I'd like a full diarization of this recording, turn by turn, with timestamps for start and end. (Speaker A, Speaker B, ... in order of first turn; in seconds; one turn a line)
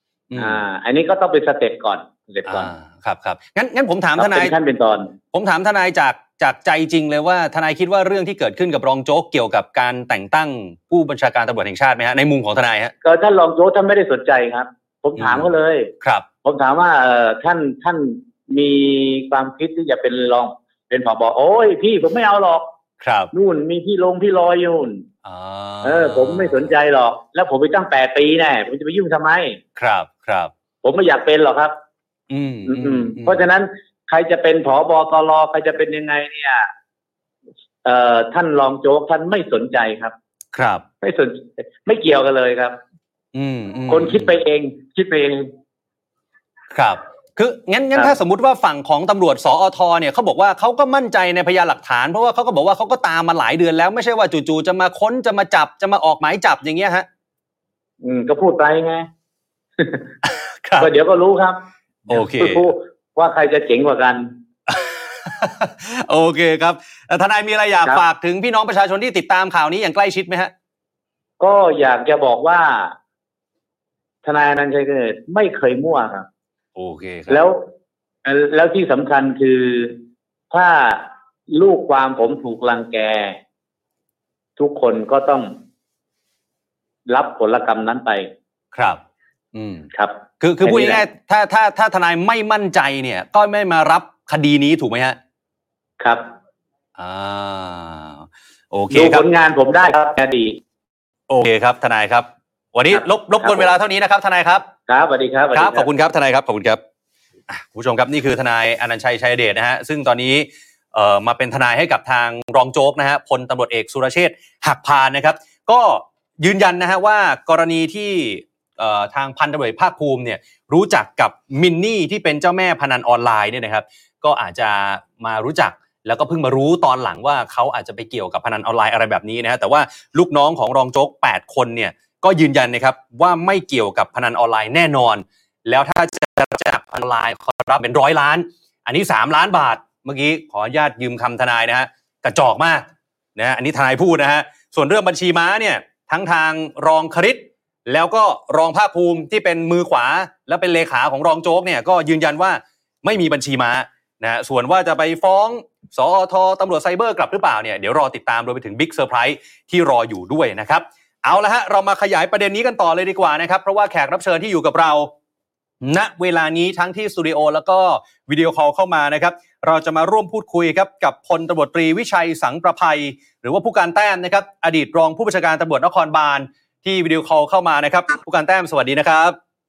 Speaker A: 0.3-0.6
Speaker B: 0.3-2.7
Speaker A: 2.5-4.5
Speaker B: 4.2-5.1
Speaker A: 5.3-12.9
Speaker B: 13.0-15.9
Speaker A: 15.2-15.5
Speaker A: 16.0-16.2
Speaker B: 16.4-22.7
Speaker A: 23.0-23.3
Speaker B: 23.3-25.0
Speaker A: 25.2-26.7
Speaker B: 25.8-29.6
Speaker A: 29.8-30.5
Speaker B: 30.8-31.7
Speaker A: 32.3-33.4
Speaker B: 32.7-36.7
Speaker B: 37.8-40.1
Speaker A: 40.5-40.8
Speaker B: 41.0-42.8
Speaker A: 43.3-44.3
Speaker B: 43.9-45.5
Speaker A: 46.7-57.0
Speaker B: 58.0-59.1
Speaker B: 59.8-60.1
Speaker A: 60.2-60.9
Speaker B: 60.8-64.3
Speaker A: 62.1-62.7
Speaker A: 64.7-70.5
Speaker B: 71.4-73.0
Speaker B: 74.2-76.3
Speaker A: 76.8-77.4
Speaker B: 77.3-77.7
Speaker B: 78.2-80.0
Speaker B: 80.5-83.4
Speaker B: 84.6-85.6
Speaker B: 87.1-88.3
Speaker A: 88.7-89.0
Speaker A: 89.5-89.9
Speaker B: 89.9-91.0
Speaker A: 90.4-95.2
Speaker B: 96.0-96.3
Speaker A: 97.0-99.2
Speaker B: 98.9-100.6
Speaker A: 101.3-104.7
Speaker B: 102.9-103.7
Speaker B: 104.9-105.9
Speaker A: 105.5-106.8
Speaker A: 107.5-165.1
Speaker A: 165.8-179.4